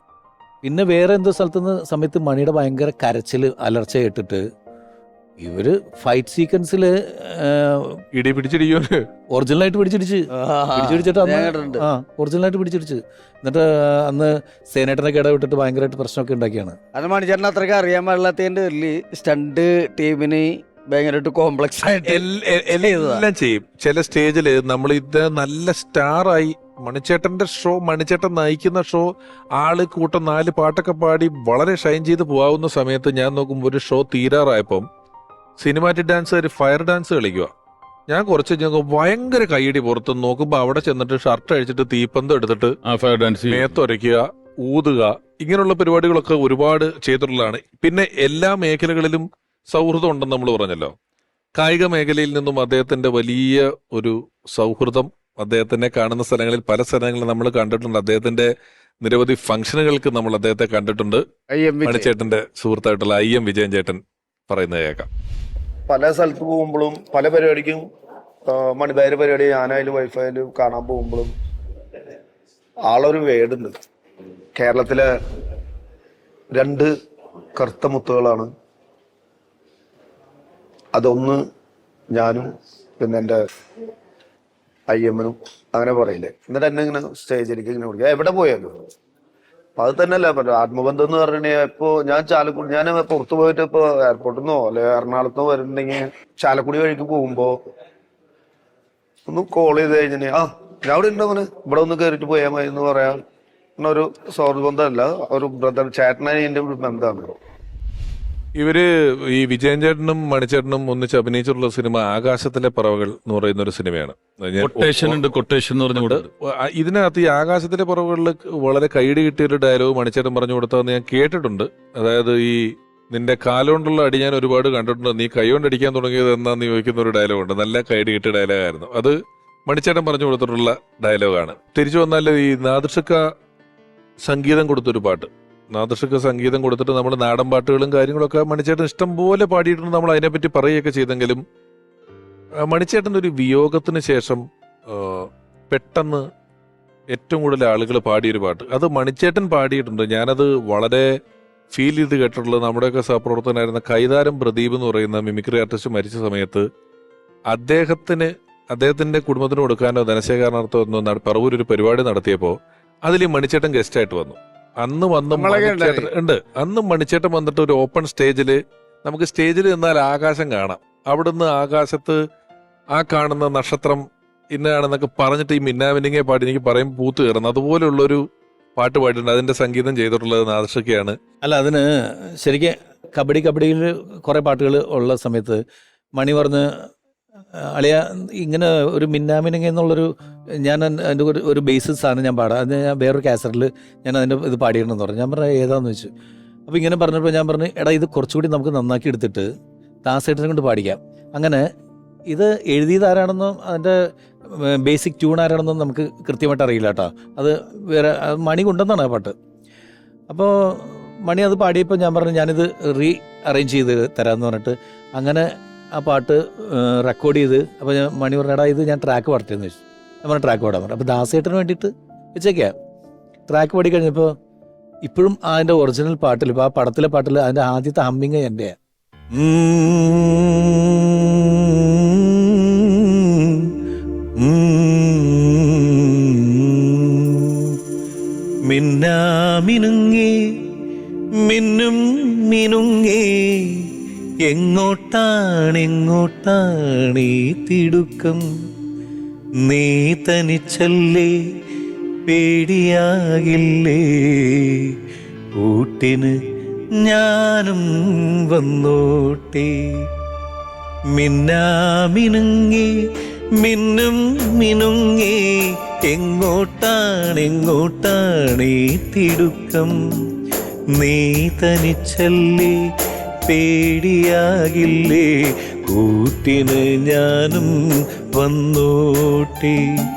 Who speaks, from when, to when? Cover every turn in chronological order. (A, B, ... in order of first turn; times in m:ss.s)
0:00.6-0:04.4 A
0:05.4-0:08.0 A
0:08.1-0:09.1 B
0:09.3-0:16.8 A
0:10.4-0:11.8 C
0:17.0-0:20.4 C
0:20.9-0:22.2 C
0:21.8-0:34.8 B
0:22.8-0:23.2 C
0:35.6-0:37.5 B
0:38.1-0:42.7 B
0:42.8-0:43.7 D
0:43.5-0:50.9 B
0:51.6-0:58.5 B
0:59.0-1:01.2 B
1:01.5-1:02.0 C
1:01.8-1:05.1 B
1:05.9-1:07.8 E
1:08.4-1:11.3 E
1:12.9-1:13.7 E
1:14.5-1:15.1 E
1:16.5-1:16.9 E
1:17.6-1:18.5 E
1:20.9-1:21.4 E
1:22.1-1:22.5 E
1:23.0-1:23.4 E
1:24.9-1:28.7 E
1:29.8-1:37.6 E
1:39.3-1:43.2 E
1:43.8-1:47.3 E
1:48.6-1:55.3 B
1:54.6-1:56.2 D
1:55.9-2:13.2 B
2:14.2-2:21.4 B
2:22.6-2:26.2 B
2:27.1-2:31.1 B
2:31.7-2:36.6 B
2:37.5-2:52.2 B
2:45.4-2:46.0 C
2:52.9-2:58.2 B
2:58.8-3:01.2 B
3:01.4-3:05.6 A
3:06.2-3:06.9 A
3:07.5-3:10.1 A
3:10.6-3:16.1 A
3:16.7-3:19.5 A
3:20.0-3:21.6 A
3:22.3-3:29.3 A
3:30.3-3:42.7 A
3:43.5-3:44.3 A
3:45.0-3:48.7 A
3:49.3-3:53.7 A
3:54.4-3:57.8 A
3:58.6-4:00.4 A
4:01.4-4:03.9 A
4:04.4-4:08.4 A
4:09.6-4:11.4 A
4:12.2-4:14.9 A
4:15.5-4:16.4 A
4:17.0-4:20.1 A
4:21.1-4:22.9 A
4:23.5-4:29.9 A
4:30.9-4:32.8 A
4:33.4-4:39.9 A